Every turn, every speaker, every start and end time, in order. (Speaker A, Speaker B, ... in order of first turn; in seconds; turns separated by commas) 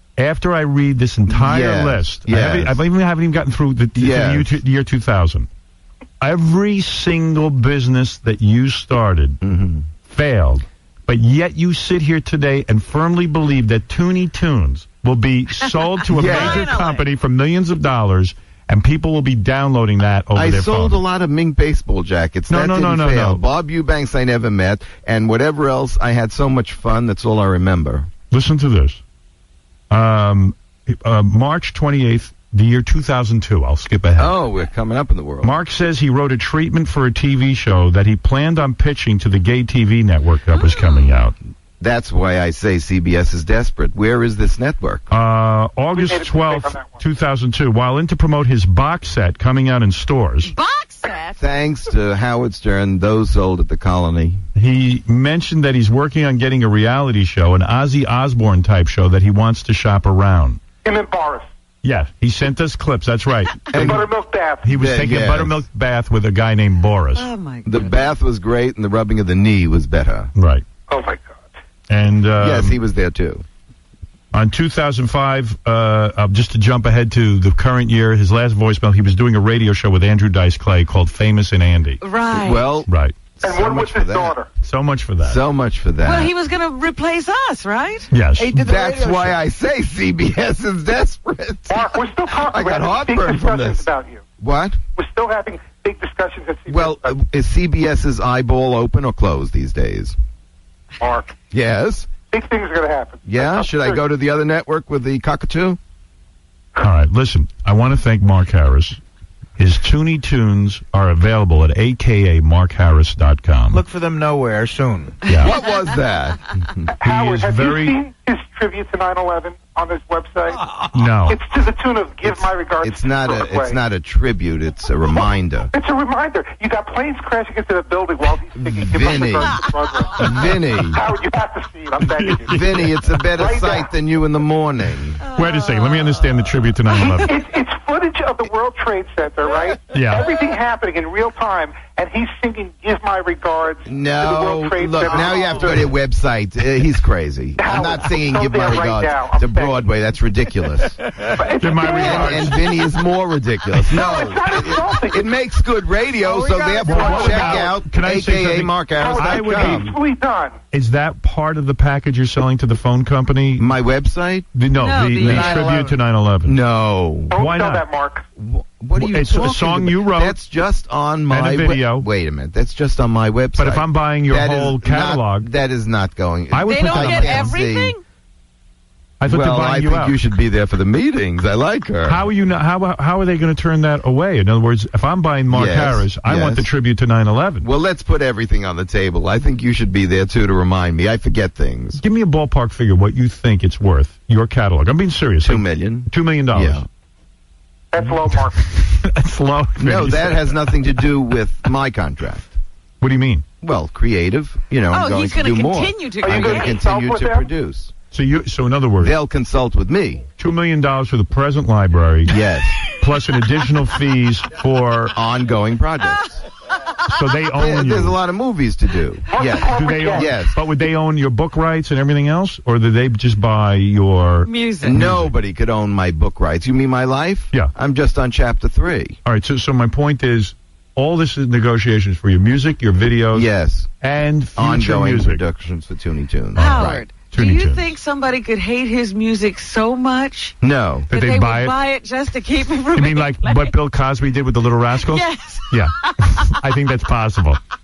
Speaker A: 0.2-5.5, Speaker B: 1.3-2.8, Speaker B: 4.0-4.6, Speaker A: 6.2-9.4, Speaker B: 9.4-9.8, Speaker A: 10.0-21.0, Speaker B: 16.1-16.7, Speaker C: 16.1-17.1, Speaker B: 20.3-28.1, Speaker A: 22.5-23.4, Speaker A: 28.3-29.0, Speaker A: 29.9-34.4, Speaker B: 34.2-35.5, Speaker A: 35.4-41.3, Speaker C: 40.5-41.2, Speaker B: 41.8-45.1, Speaker A: 45.1-50.5, Speaker D: 46.0-47.0, Speaker C: 50.4-51.4, Speaker B: 51.4-54.4, Speaker A: 54.5-60.6, Speaker D: 60.8-61.5, Speaker A: 61.8-64.0, Speaker B: 63.7-64.0, Speaker D: 63.7-64.7, Speaker A: 64.6-67.3, Speaker B: 64.6-65.6, Speaker C: 67.2-68.1, Speaker B: 67.7-70.3, Speaker A: 70.3-70.6, Speaker D: 70.9-71.4, Speaker A: 71.9-72.8, Speaker B: 72.4-73.4, Speaker A: 74.3-82.0, Speaker C: 82.0-82.7, Speaker B: 82.3-84.3, Speaker A: 82.9-83.1, Speaker D: 83.4-84.5, Speaker A: 84.6-85.4, Speaker B: 85.2-86.3, Speaker C: 86.0-88.1, Speaker A: 88.1-88.6, Speaker E: 88.4-89.4, Speaker B: 88.5-93.8, Speaker D: 91.7-94.2, Speaker B: 94.4-94.8, Speaker D: 95.0-97.1, Speaker B: 96.7-100.1, Speaker D: 101.0-101.3, Speaker B: 101.5-102.1, Speaker D: 102.2-104.0, Speaker B: 103.2-105.8, Speaker A: 106.8-109.0, Speaker A: 109.6-113.8, Speaker E: 113.7-115.2, Speaker A: 115.3-115.6, Speaker B: 115.3-116.8, Speaker D: 116.9-120.6, Speaker A: 117.0-118.0, Speaker E: 120.5-121.1, Speaker A: 120.9-121.4, Speaker D: 121.3-123.8, Speaker B: 122.8-125.7, Speaker D: 125.7-132.7, Speaker B: 128.6-129.6, Speaker B: 130.1-131.0, Speaker A: 132.0-133.2, Speaker B: 132.5-135.2, Speaker D: 133.3-133.9, Speaker C: 135.2-137.2, Speaker A: 135.3-137.3, Speaker D: 137.1-145.7, Speaker A: 139.9-140.3, Speaker B: 143.9-151.0, Speaker D: 147.6-149.8, Speaker E: 151.2-151.9, Speaker D: 151.3-152.6, Speaker A: 151.6-152.6, Speaker B: 151.9-159.9, Speaker D: 153.9-155.2, Speaker E: 156.2-157.1, Speaker A: 156.8-159.9, Speaker D: 156.8-157.7, Speaker D: 159.0-160.6, Speaker A: 160.7-163.7, Speaker B: 163.6-164.5, Speaker A: 164.5-166.6, Speaker C: 164.7-165.7, Speaker E: 165.2-166.0, Speaker B: 166.4-167.3, Speaker D: 167.3-168.2, Speaker A: 167.3-167.9, Speaker B: 168.3-177.9, Speaker A: 169.0-170.3, Speaker A: 171.3-172.1, Speaker A: 173.6-175.5, Speaker A: 176.5-177.5, Speaker C: 176.7-178.0, Speaker A: 179.2-180.2, Speaker B: 179.3-182.3, Speaker A: 182.0-187.7, Speaker B: 185.5-186.7, Speaker B: 187.6-192.0, Speaker A: 192.0-196.8, Speaker B: 195.4-196.8, Speaker D: 197.9-198.6, Speaker A: 198.0-200.8, Speaker B: 199.8-202.5, Speaker A: 203.0-203.4, Speaker B: 203.6-207.9, Speaker C: 204.9-206.8, Speaker D: 206.2-207.5, Speaker A: 208.1-209.2, Speaker B: 209.0-210.3, Speaker A: 210.4-215.1, Speaker B: 212.3-212.8, Speaker B: 215.1-216.4, Speaker A: 217.1-218.2, Speaker B: 217.5-220.6, Speaker D: 219.3-220.3, Speaker A: 219.6-225.3, Speaker C: 224.4-225.0, Speaker B: 224.8-229.2, Speaker A: 229.2-233.5, Speaker B: 233.3-233.9, Speaker A: 234.0-235.4, Speaker B: 234.6-237.0, Speaker A: 236.6-237.9, Speaker C: 236.6-240.6, Speaker B: 240.6-241.1, Speaker A: 241.1-241.7, Speaker C: 241.1-243.7, Speaker A: 242.9-247.6, Speaker C: 244.9-246.5